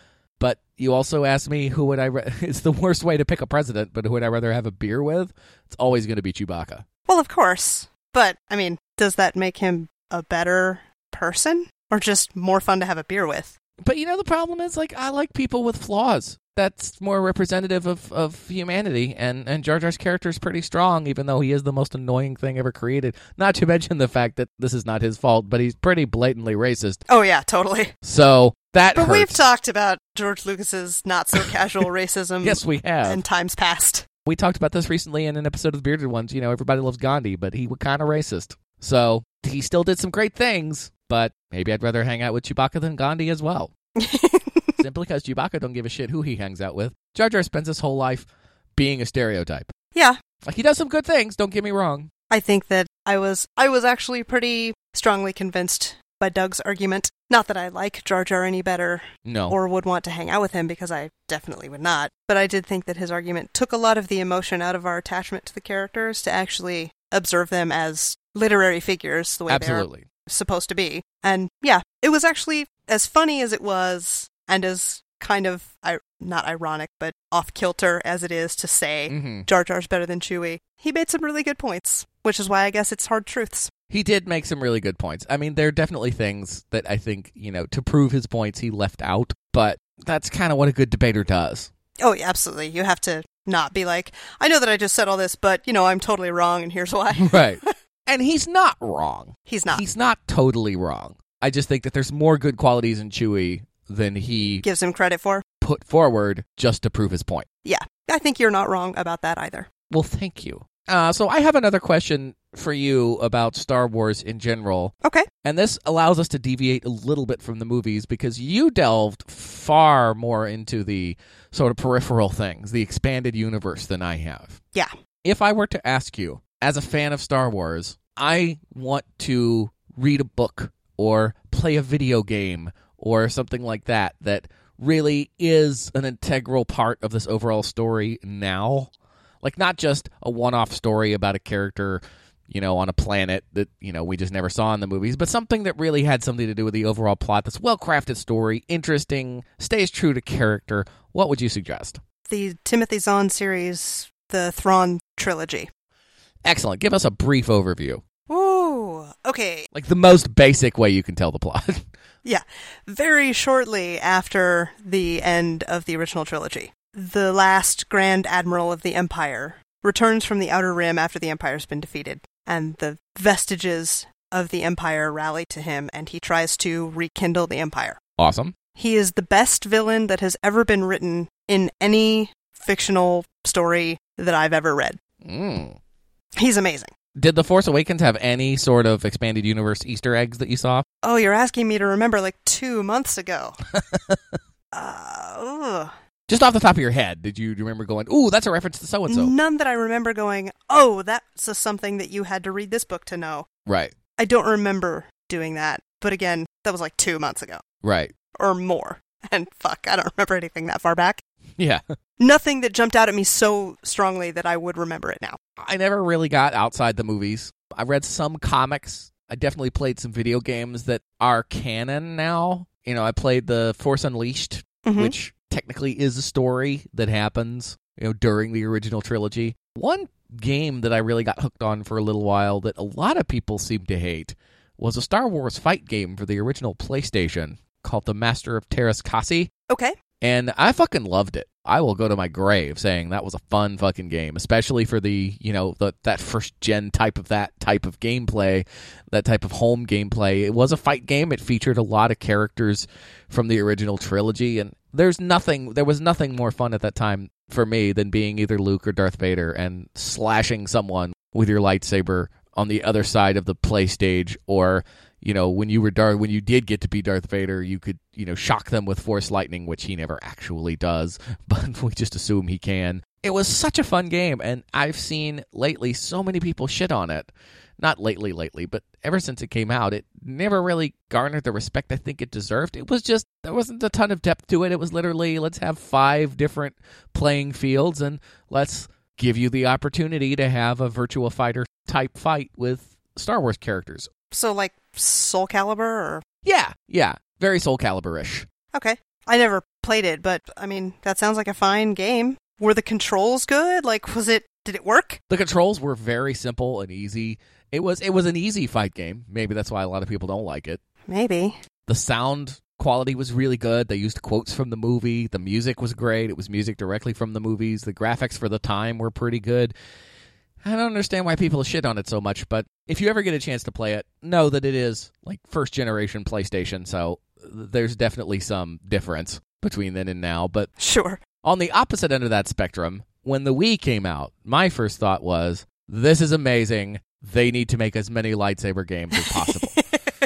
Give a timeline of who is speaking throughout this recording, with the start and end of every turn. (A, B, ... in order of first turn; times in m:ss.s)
0:00.4-0:06.8 A
0:07.1-0:13.6 B
0:13.8-0:27.0 A
0:27.1-0:27.9 B
0:28.0-0:29.4 A
0:28.9-0:34.0 B
0:32.4-0:33.2 A
0:34.2-0:43.7 A
0:44.0-0:44.8 B
0:44.8-0:49.7 A
0:50.4-0:52.1 A
0:52.3-1:23.7 B
0:59.2-0:59.6 A
1:09.5-1:10.1 A
1:19.1-1:19.5 A
1:23.9-1:31.7 A
1:32.0-1:37.7 B
1:37.2-1:44.6 A
1:39.5-1:39.8 B
1:44.6-1:45.4 B
1:45.6-1:47.5 A
1:47.6-1:49.7 B
1:49.9-2:04.6 A
2:05.2-2:18.9 A
2:19.4-2:32.0 A
2:32.3-2:35.7 B
2:36.4-2:38.0 A
2:38.3-2:39.7 B
2:39.7-2:41.8 A
2:42.2-2:58.0 B
2:58.2-2:58.6 A
2:58.8-3:05.0 B
3:05.2-3:05.8 A
3:06.4-3:06.9 B
3:07.2-3:10.8 A
3:11.0-3:13.6 B
3:13.7-3:14.4 A
3:14.7-3:15.9 B
3:16.3-3:19.3 A
3:19.1-3:23.5 B
3:23.7-3:23.9 A
3:24.2-3:27.6 B
3:27.8-3:28.1 A
3:28.4-3:31.2 B
3:31.6-3:31.9 A
3:32.2-3:35.4 B
3:35.6-3:59.5 A
3:44.8-3:45.1 B
3:59.7-4:00.0 B
4:00.2-4:54.1 A
4:54.3-4:56.2 B
4:56.4-4:58.5 A
4:58.7-5:05.2 B
5:05.3-5:10.8 A
5:11.1-5:11.6 B
5:11.9-5:19.7 A
5:20.6-5:30.7 A
5:30.8-5:31.2 B
5:31.4-5:39.8 A
5:39.2-5:39.8 B